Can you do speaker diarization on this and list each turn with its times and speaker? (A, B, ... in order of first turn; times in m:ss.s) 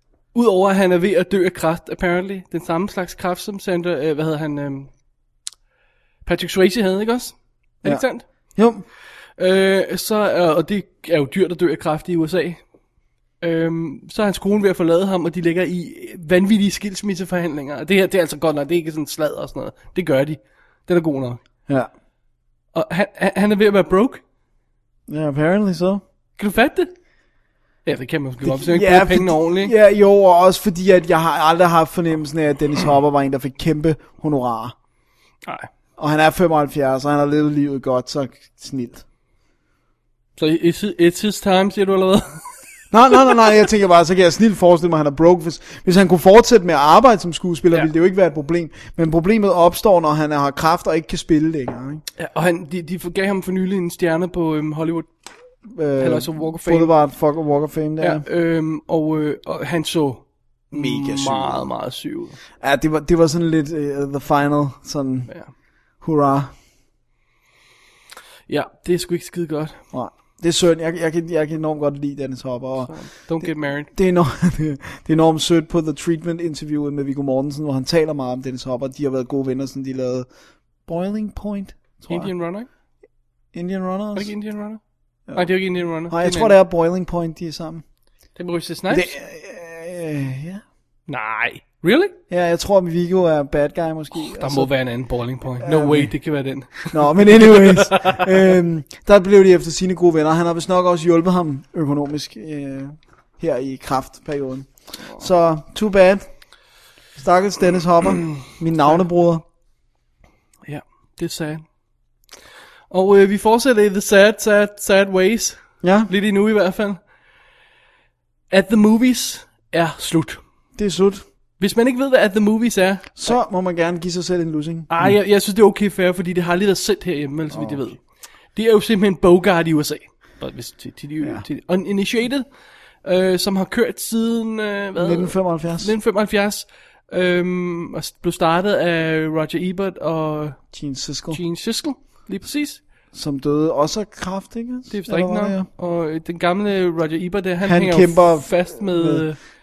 0:00.3-0:04.9 A
0:06.2-0:08.2 A
0:07.8-0:08.8 B
0:09.4-0:12.6 A
0:13.4-0:21.4 A
0:22.7-0:24.2 A
0:25.1-0:26.0 B
0:26.4-0:26.9 A
0:27.8-0:29.7 A
0:28.4-0:34.7 B
0:36.0-0:39.0 B
0:40.4-0:42.4 A
0:42.9-0:52.0 B
0:52.2-0:55.1 A
0:55.7-0:58.2 B
0:56.0-0:56.9 A
0:58.0-1:02.4 A
1:00.7-1:01.7 B
1:02.6-1:05.3 B
1:06.0-1:06.5 B
1:08.5-1:09.8 A
1:09.9-1:20.3 B
1:12.8-1:13.9 A
1:20.8-1:22.3 B
1:22.1-1:22.7 A
1:23.5-1:24.3 B
1:24.1-1:24.8 A
1:25.3-1:27.8 B
1:25.3-1:26.5 A
1:28.3-1:29.1 A
1:28.9-1:30.6 B
1:31.1-1:32.1 A
1:32.3-1:34.7 B
1:34.1-1:38.5 A
1:35.6-1:36.1 B
1:36.8-1:46.4 B
1:47.2-1:49.4 B
1:50.6-1:51.6 A
1:52.9-1:57.0 A
1:55.8-1:56.1 B
1:58.5-2:00.4 A
2:00.8-2:01.2 B
2:01.6-2:03.4 A
2:03.2-2:05.1 B
2:04.9-2:08.0 A
2:07.5-2:07.8 B
2:08.5-2:12.5 A
2:13.0-2:20.6 A
2:15.0-2:15.9 B
2:20.7-2:21.4 B
2:21.3-2:22.8 A
2:23.1-2:25.7 B
2:24.9-2:29.4 A
2:27.6-2:29.3 B